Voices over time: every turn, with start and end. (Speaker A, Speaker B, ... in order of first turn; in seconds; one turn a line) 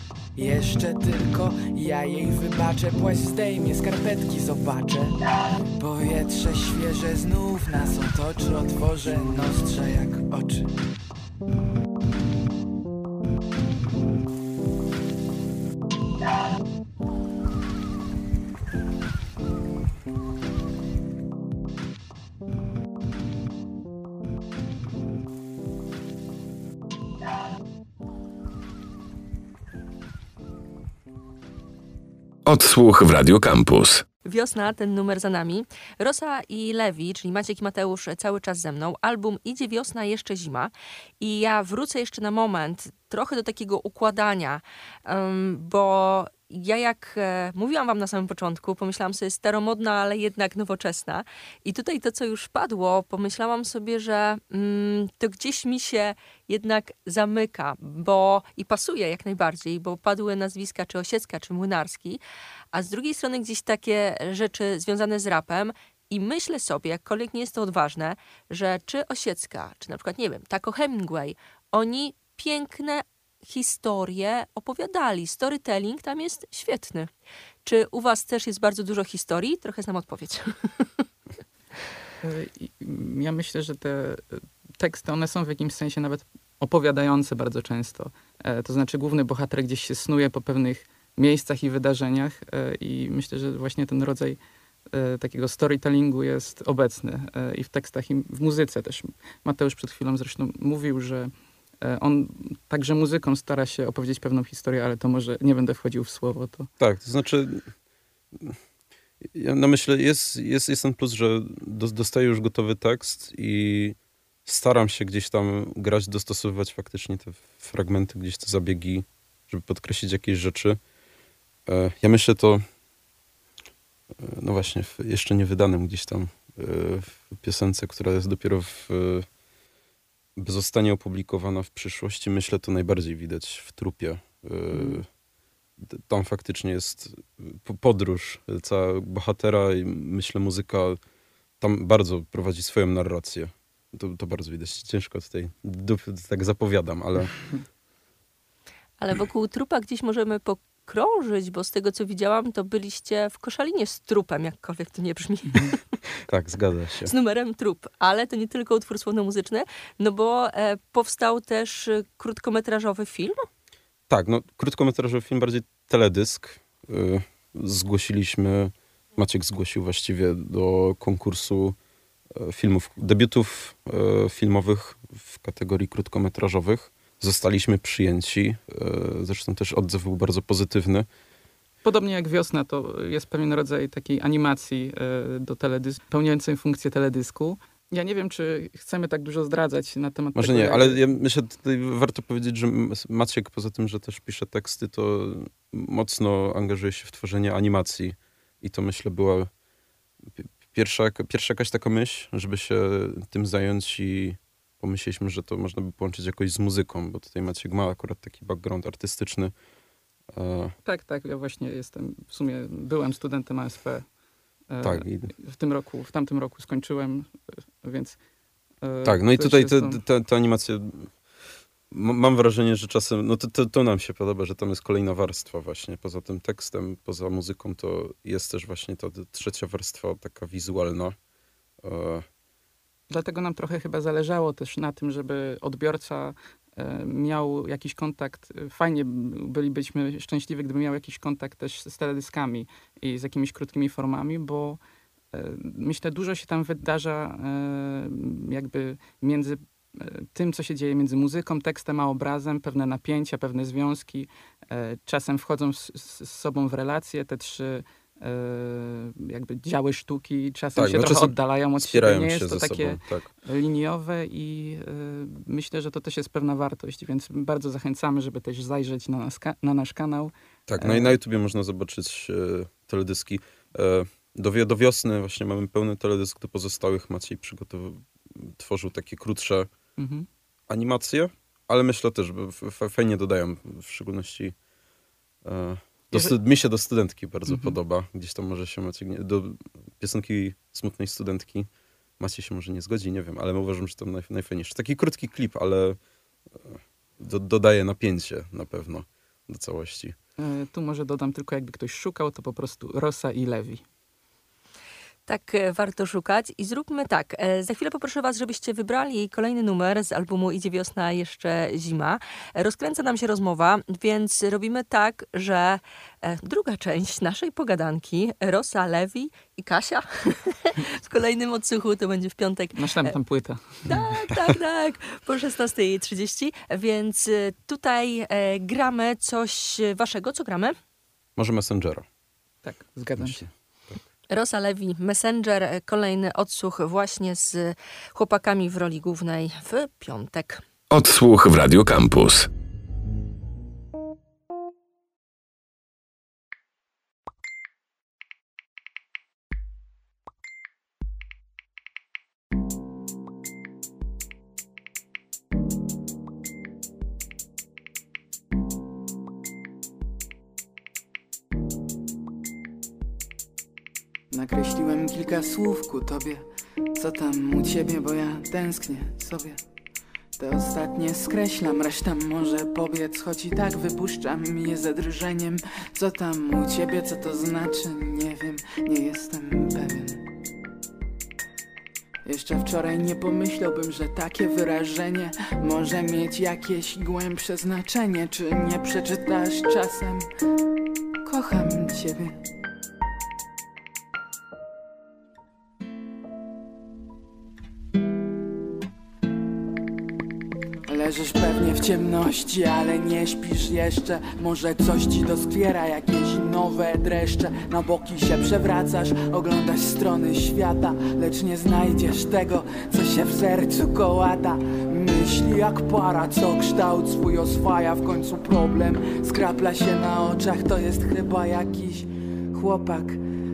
Speaker A: 0.3-5.2
Speaker A: 5.7-10.7
Speaker B: 32.4-34.0
Speaker C: 34.2-62.2
Speaker C: 62.7-77.1
Speaker C: 77.6-80.9
Speaker D: 82.2-94.4
Speaker D: 94.9-101.3
Speaker D: 101.8-106.7
Speaker E: 106.8-107.7
Speaker E: 109.2-120.8
Speaker E: 121.7-122.6
Speaker E: 124.2-129.3
Speaker E: 130.3-135.1
Speaker D: 134.7-135.0
Speaker E: 135.8-141.0
Speaker E: 141.6-147.4
Speaker C: 149.0-155.8
Speaker E: 156.3-157.1
Speaker C: 157.0-163.5
Speaker E: 164.1-171.8
Speaker E: 172.3-181.1
Speaker D: 181.8-191.0
Speaker E: 190.3-199.5
Speaker E: 200.3-209.5
Speaker E: 210.3-210.8
Speaker D: 210.8-214.1
Speaker D: 214.7-217.3
Speaker E: 214.8-215.3
Speaker D: 217.8-218.2
Speaker D: 218.8-220.0
Speaker E: 219.0-221.1
Speaker E: 221.9-231.2
Speaker E: 231.8-232.2
Speaker D: 233.1-244.8
Speaker D: 245.3-271.1
Speaker E: 260.8-263.3
Speaker E: 270.7-279.7
Speaker D: 280.0-280.3
Speaker E: 280.7-284.6
Speaker E: 285.4-296.0
Speaker D: 287.5-287.7
Speaker E: 296.5-300.2
Speaker D: 300.4-303.8
Speaker C: 305.3-323.2
Speaker D: 322.8-323.8
Speaker C: 323.8-330.8
Speaker E: 331.4-332.1
Speaker D: 332.6-333.5
Speaker E: 333.2-334.0
Speaker C: 334.3-340.6
Speaker B: 340.9-342.5
Speaker A: 364.3-369.6
Speaker A: 370.4-380.3
Speaker A: 382.2-390.3
Speaker A: 391.2-392.4
Speaker A: 400.9-423.2